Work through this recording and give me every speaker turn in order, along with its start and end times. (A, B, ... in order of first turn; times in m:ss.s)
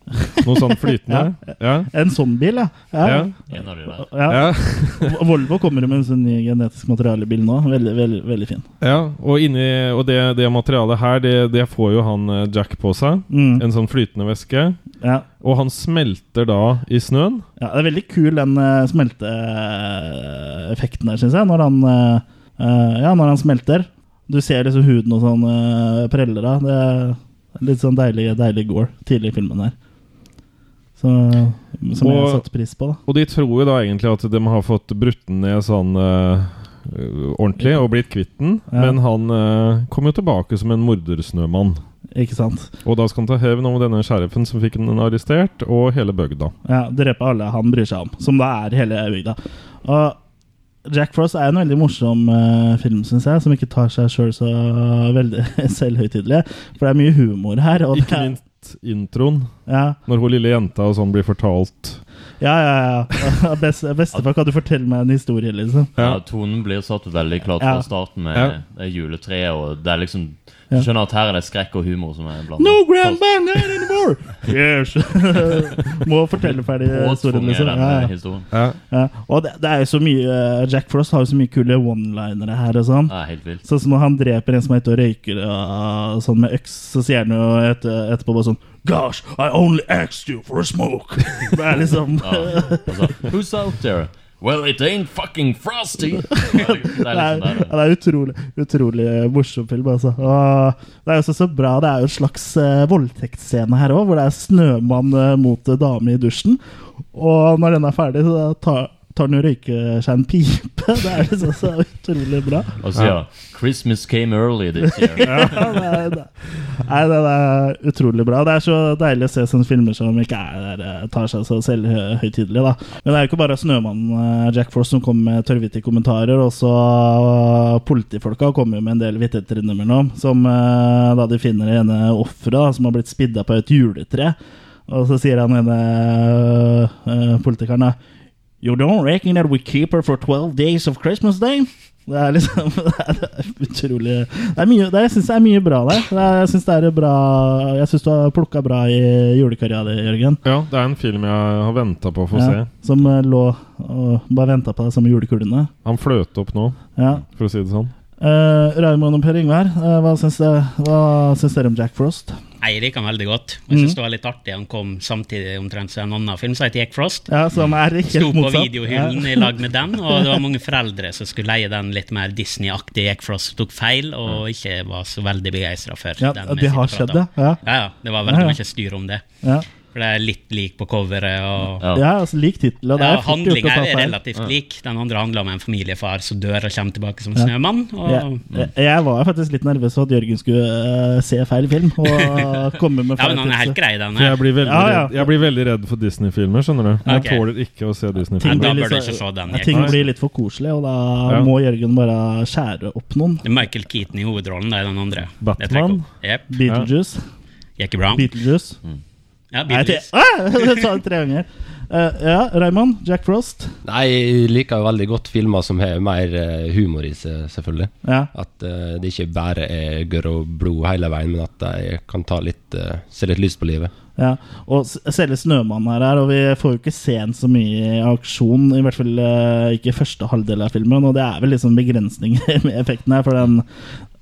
0:00.4-0:01.9 A
0:00.7-0:03.3 B
0:03.0-0:03.3 A
0:03.5-0:04.1 C
0:04.0-0:08.7 B
0:04.3-0:05.2 A
0:08.8-0:14.8 A
0:13.3-0:13.6 B
0:15.0-0:15.3 B
0:15.4-0:17.5 A
0:17.6-0:29.8 B
0:31.0-0:33.0 B
0:32.0-0:32.4 A
0:33.1-0:41.8 A
0:38.7-0:39.0 B
0:42.1-0:42.7 B
0:42.8-0:46.6 A
0:46.6-0:50.2 B
0:50.9-0:58.3 B
0:57.9-0:59.5 A
0:59.7-1:00.0 B
1:00.0-1:02.0 A
1:02.4-1:05.9 B
1:06.0-1:13.6 C
1:07.6-1:07.8 B
1:12.6-1:18.1 B
1:16.4-1:18.5 C
1:18.5-1:18.8 A
1:18.9-1:23.1 B
1:23.1-1:23.6 C
1:23.6-1:32.9 B
1:31.8-1:37.7 C
1:36.4-1:46.6 B
1:47.1-1:52.7 B
1:52.8-1:55.8 C
1:55.2-2:14.4 B
2:14.9-2:18.0 B
2:18.6-2:30.4 B
2:30.4-2:32.7 A
2:32.3-2:35.7 B
2:35.8-2:37.9 A
2:37.0-2:37.2 B
2:38.2-2:42.4 B
2:42.6-2:47.3 D
2:43.7-2:44.0 B
2:47.3-2:49.5 B
2:48.1-2:59.2 D
2:56.2-2:57.6 B
2:58.3-2:58.6 B
2:59.9-3:01.9 D
3:01.9-3:04.2 B
3:03.0-3:08.4 D
3:08.0-3:13.8 B
3:13.2-3:14.4 D
3:14.2-3:18.8 A
3:14.6-3:15.3 B
3:17.0-3:17.4 D
3:18.4-3:20.0 D
3:18.4-3:23.5 B
3:19.7-3:20.0 A
3:23.4-3:26.5 D
3:25.4-3:26.1 A
3:26.5-3:27.2 B
3:27.8-3:28.3 D
3:28.1-3:28.8 B
3:29.5-3:30.7 D
3:29.7-3:33.8 B
3:33.8-3:43.9 E
3:38.0-3:38.3 B
3:44.2-3:53.7 B